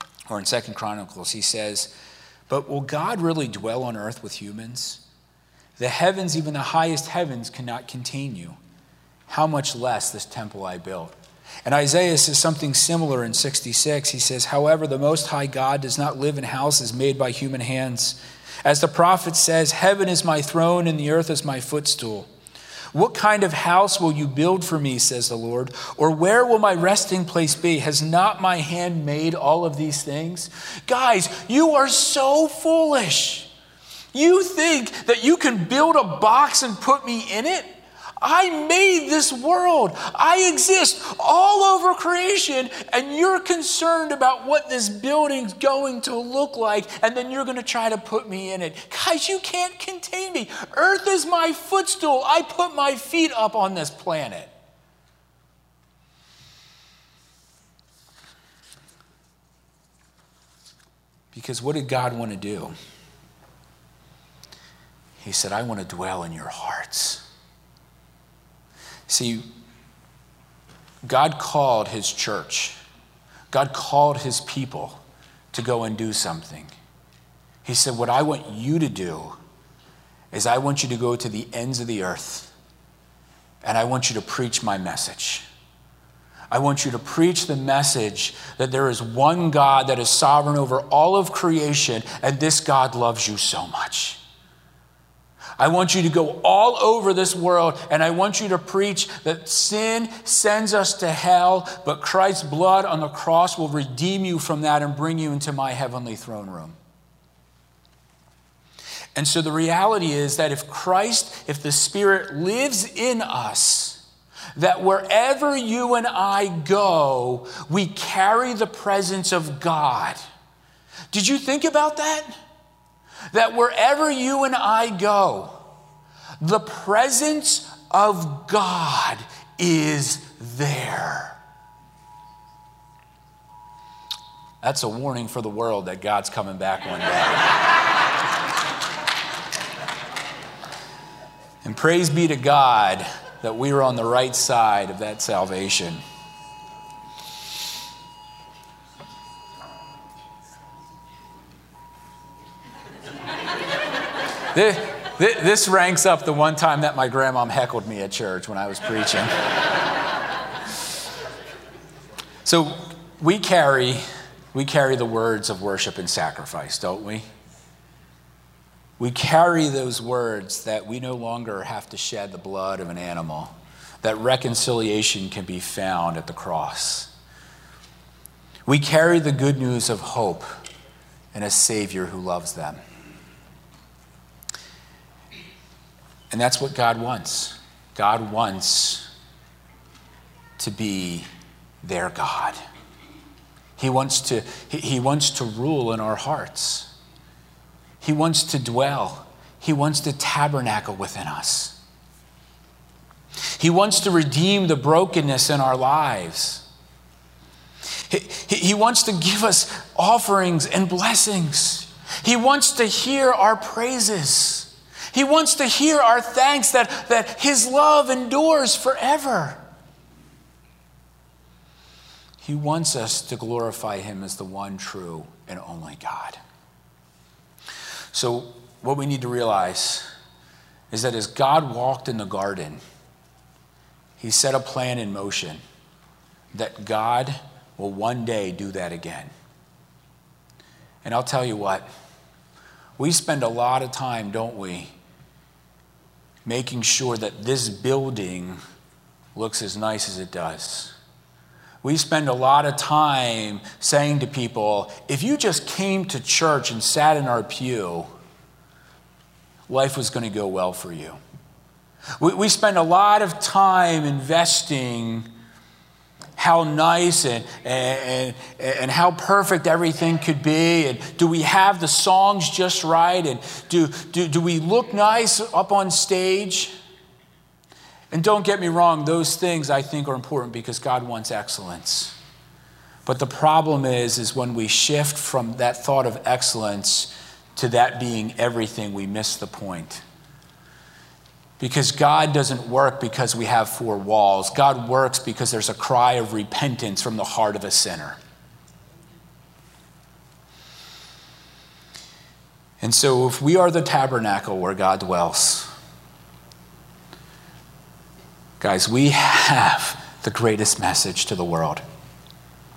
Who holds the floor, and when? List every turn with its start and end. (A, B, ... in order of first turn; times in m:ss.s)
0:00.3-0:01.9 A
0:02.5-0:05.0 A
0:05.8-0:08.6 A
0:09.3-0:22.3 A
0:22.9-0:33.5 A
0:34.1-0:54.5 A
1:01.3-1:02.7 A
1:05.2-1:07.2 A
1:09.1-1:09.4 A
1:11.0-1:12.8 A
1:13.5-1:15.0 A
1:15.5-1:16.7 A
1:17.6-1:19.4 A
1:20.3-1:22.5 A
1:23.6-1:25.4 A
1:26.5-1:34.2 A
1:35.6-1:46.8 A
1:49.1-1:54.0 A
1:54.6-2:00.2 A
2:01.1-2:02.4 A
2:03.3-2:05.6 A
2:06.4-2:11.4 A
2:14.6-2:17.6 A
2:21.6-2:26.0 A
2:34.5-2:39.3 A
2:42.4-2:47.2 A
2:49.0-2:57.1 A
2:58.7-3:00.5 A
3:01.3-3:02.8 A
3:06.3-3:09.1 A
3:10.6-3:11.3 A
3:11.8-3:12.6 A
3:13.8-3:16.9 A
3:18.0-3:21.8 A
3:23.5-3:26.6 A
3:28.1-3:39.6 A
3:42.4-3:46.4 A
3:48.1-3:50.0 A
3:50.9-3:52.8 A
3:54.2-3:55.6 A
3:56.5-3:59.3 A
4:01.0-4:01.8 A
4:03.0-4:04.9 A
4:06.4-4:08.6 A
4:09.3-4:10.9 A
4:11.8-4:18.1 A
4:19.7-4:21.2 A
4:22.2-4:25.3 A
4:26.4-4:36.7 A
4:38.1-4:42.2 A
4:43.0-4:50.0 A
4:51.6-4:58.2 A
5:02.8-5:05.7 A
5:08.6-5:11.8 A